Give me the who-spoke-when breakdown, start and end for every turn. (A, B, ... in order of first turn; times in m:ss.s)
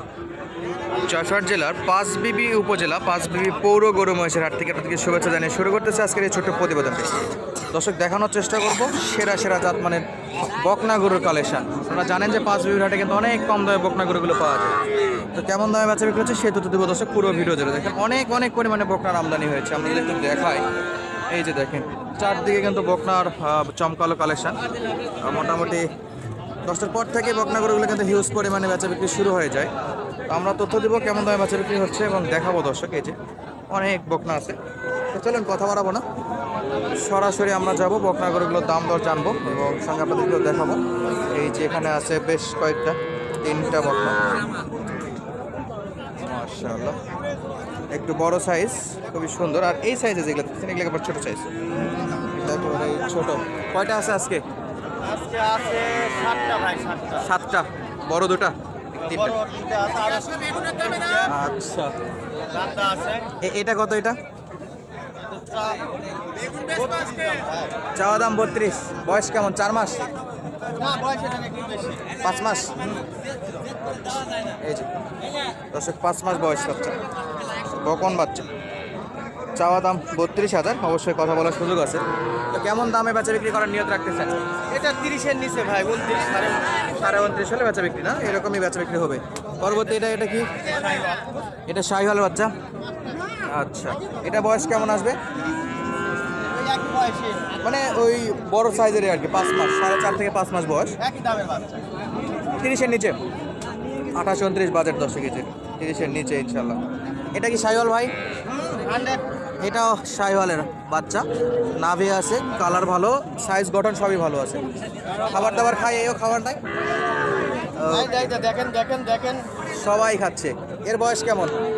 0:01.0-0:07.1 A
0:07.7-0:14.7 A
0:15.3-0:20.6 A
0:21.3-0:24.6 A
0:25.2-0:25.9 A
0:26.6-0:29.7 A
0:30.3-0:33.2 A
0:33.7-0:34.6 A
0:35.1-0:36.0 A
0:36.9-0:44.2 A
0:46.2-0:47.0 A
0:47.9-0:51.5 A
0:52.2-0:54.4 A
0:55.0-0:57.3 B
0:57.2-0:59.4 A
0:59.0-1:01.3 B
1:01.3-1:01.9 A
1:02.5-1:03.3 B
1:03.4-1:04.2 A
1:05.2-1:05.9 B
1:06.6-1:07.7 B
1:07.9-1:10.1 A
1:10.8-1:12.1 B
1:12.2-1:12.7 A
1:14.6-1:14.9 A
1:15.7-1:17.0 A
1:17.7-1:18.5 A
1:19.5-1:24.3 A
1:24.7-1:26.9 B
1:26.9-1:30.6 A
1:30.6-1:31.3 B
1:31.7-1:32.5 A
1:33.5-1:35.2 A
1:36.5-1:37.6 B
1:37.6-1:40.9 A
1:41.0-1:41.8 B
1:42.6-1:43.2 A
1:44.1-1:46.8 A
1:47.3-1:48.1 A
1:48.6-1:49.2 B
1:49.6-1:51.2 A
1:51.8-1:54.7 A
1:55.3-1:56.6 A
1:55.3-1:55.7 B
1:57.8-1:58.1 A
1:57.9-1:59.5 B
1:59.7-2:01.5 A